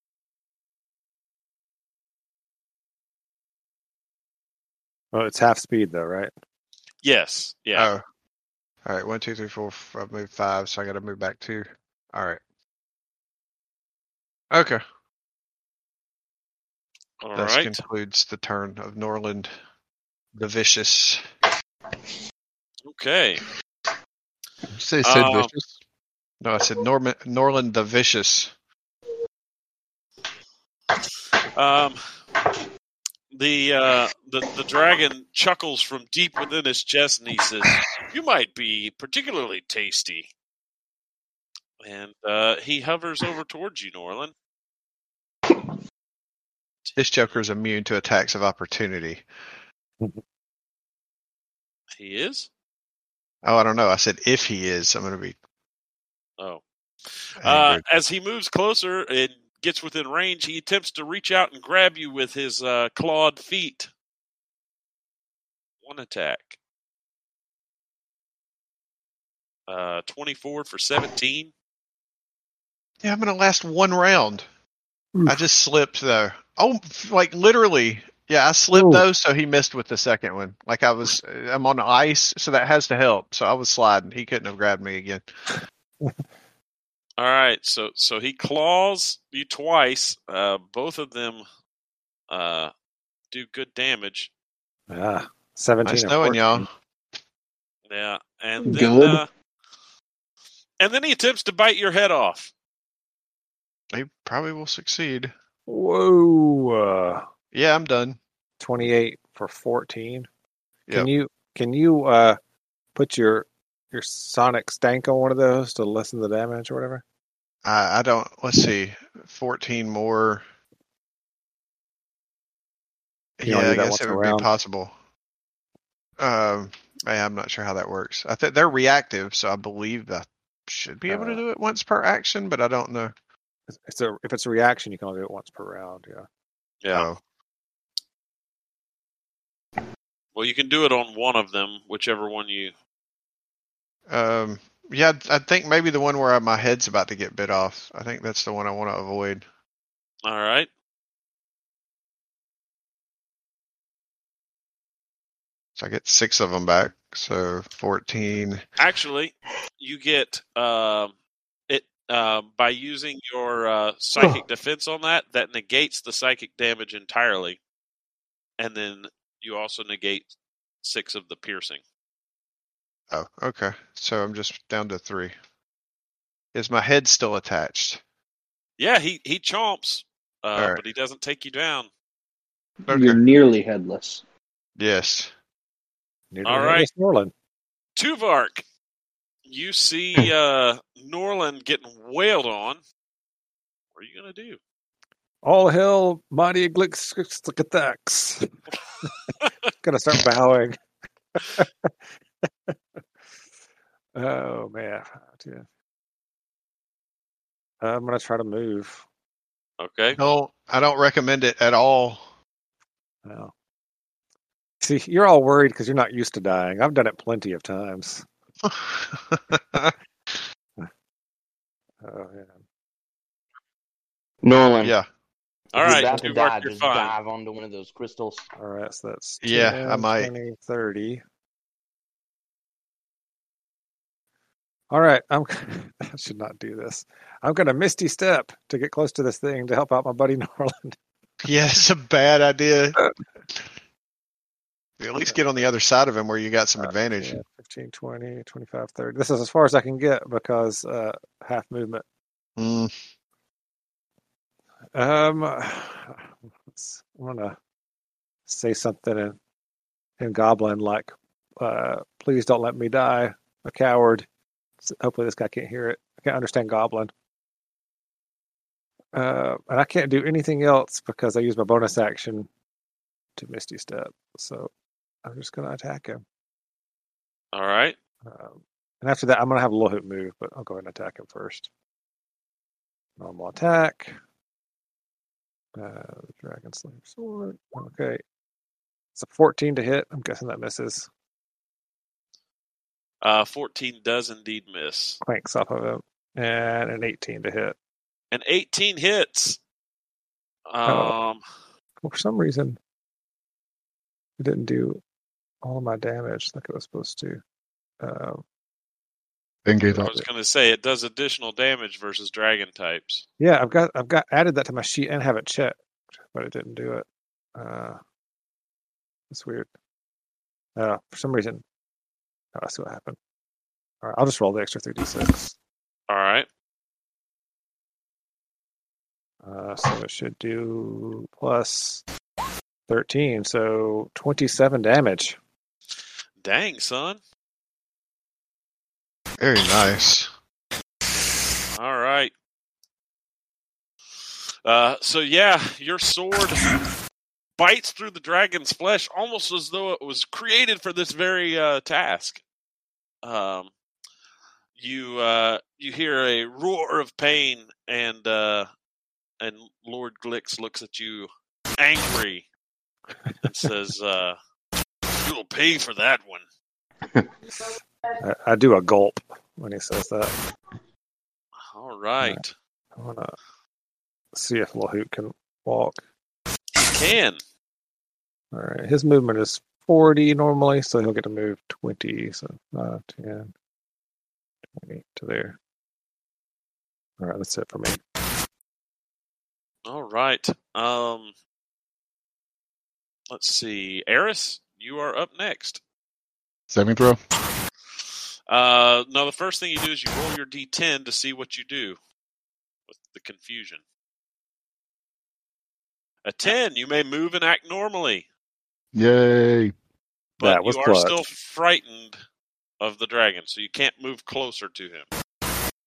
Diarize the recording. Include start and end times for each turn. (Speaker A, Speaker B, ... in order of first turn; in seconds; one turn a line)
Speaker A: 5.1-6.3
Speaker B: 7.0-7.9
Speaker C: 7.8-8.0
Speaker C: 8.8-12.4
Speaker C: 14.5-14.8
Speaker B: 17.2-17.8
Speaker C: 17.4-19.5
Speaker C: 20.4-21.2
Speaker B: 22.9-23.4
Speaker D: 24.7-25.8
Speaker B: 25.0-25.5
Speaker C: 26.4-28.5
Speaker B: 31.5-32.0
Speaker B: 33.3-40.3
Speaker B: 41.8-44.3
Speaker B: 46.9-47.4
Speaker C: 47.0-49.3
Speaker B: 52.0-52.5
Speaker C: 53.4-55.4
Speaker B: 57.4-63.9
Speaker C: 57.4-57.8
Speaker B: 65.8-66.6
Speaker B: 69.7-71.5
Speaker C: 73.0-74.5
Speaker C: 75.3-85.3
Speaker A: 78.7-79.0
Speaker B: 87.2-91.4
Speaker B: 92.3-92.7
Speaker B: 93.3-94.3
Speaker A: 94.9-96.7
Speaker C: 95.8-96.7
Speaker B: 97.9-99.3
Speaker E: 98.6-99.2
Speaker B: 100.8-102.5
Speaker C: 103.9-105.3
Speaker A: 105.7-107.2
Speaker C: 107.5-108.2
Speaker A: 108.6-110.3
Speaker A: 110.9-112.4
Speaker A: 113.0-117.0
Speaker C: 117.7-120.4
Speaker C: 123.4-125.0
Speaker A: 123.5-124.5
Speaker C: 126.2-133.1
Speaker A: 131.1-131.4
Speaker A: 133.7-136.3
Speaker B: 136.8-137.1
Speaker C: 136.9-137.2
Speaker B: 140.3-142.7
Speaker C: 144.1-149.4
Speaker B: 150.2-150.7
Speaker C: 155.8-158.6
Speaker B: 158.8-161.1
Speaker B: 161.7-167.6
Speaker B: 168.6-170.3
Speaker B: 170.8-171.8
Speaker C: 173.1-175.3
Speaker C: 176.5-178.0
Speaker B: 178.8-181.9
Speaker C: 180.6-180.8
Speaker E: 182.8-184.2
Speaker C: 182.9-183.2
Speaker C: 184.8-185.3
Speaker A: 186.3-187.3
Speaker B: 186.4-186.9
Speaker B: 188.0-188.7
Speaker B: 189.5-192.8
Speaker B: 193.9-194.6
Speaker A: 195.4-198.5
Speaker A: 199.8-200.8
Speaker A: 201.4-201.9
Speaker A: 204.2-205.7
Speaker A: 207.8-209.1
Speaker B: 209.8-210.2
Speaker C: 210.2-212.3
Speaker A: 213.2-213.5
Speaker A: 214.8-218.2
Speaker C: 218.6-219.9
Speaker A: 222.0-222.6
Speaker F: 224.4-224.9
Speaker C: 224.8-225.1
Speaker F: 225.7-228.4
Speaker B: 225.7-227.2
Speaker A: 228.6-231.2
Speaker C: 229.4-230.3
Speaker A: 234.9-241.0
Speaker C: 241.4-243.0
Speaker C: 245.0-247.4
Speaker A: 246.8-252.0
Speaker C: 252.6-252.9
Speaker A: 254.9-257.6
Speaker A: 258.5-259.4
Speaker A: 260.2-264.3
Speaker A: 264.8-267.1
Speaker A: 269.1-272.5
Speaker A: 273.4-274.7
Speaker A: 275.2-276.2
Speaker B: 277.5-278.0
Speaker A: 278.2-281.7
Speaker A: 283.2-284.1
Speaker A: 285.8-288.2
Speaker A: 289.2-291.1
Speaker B: 293.2-295.2
Speaker A: 295.2-297.8
Speaker B: 298.3-299.6
Speaker B: 300.7-301.4
Speaker A: 300.9-301.2
Speaker A: 302.0-302.8
Speaker A: 304.4-305.0
Speaker A: 305.6-307.4
Speaker A: 308.0-308.4
Speaker D: 309.6-310.1
Speaker A: 309.9-310.2
Speaker B: 310.0-313.3
Speaker A: 313.4-315.8
Speaker A: 316.3-318.0
Speaker A: 319.3-319.7
Speaker A: 320.8-321.6
Speaker A: 322.6-323.2
Speaker A: 324.0-325.6
Speaker B: 326.1-326.5
Speaker A: 329.4-332.0
Speaker A: 332.9-335.4
Speaker B: 336.4-337.2
Speaker C: 339.4-340.3
Speaker B: 341.7-342.3
Speaker B: 344.6-346.7
Speaker B: 347.6-352.4
Speaker B: 353.2-353.7
Speaker B: 354.8-358.7
Speaker B: 359.4-362.5
Speaker B: 363.4-364.4
Speaker B: 365.2-366.4
Speaker A: 368.2-370.3
Speaker B: 371.6-372.5
Speaker A: 373.0-373.4
Speaker A: 374.3-376.0
Speaker B: 376.8-377.4
Speaker A: 378.5-383.5
Speaker A: 384.8-385.6
Speaker A: 387.2-388.0
Speaker B: 389.9-391.3
Speaker B: 393.3-395.8
Speaker D: 396.7-397.2
Speaker B: 398.5-402.0
Speaker B: 402.9-403.8
Speaker B: 406.2-408.3
Speaker D: 408.9-409.7
Speaker B: 410.4-412.2
Speaker A: 410.4-411.2
Speaker B: 412.8-415.1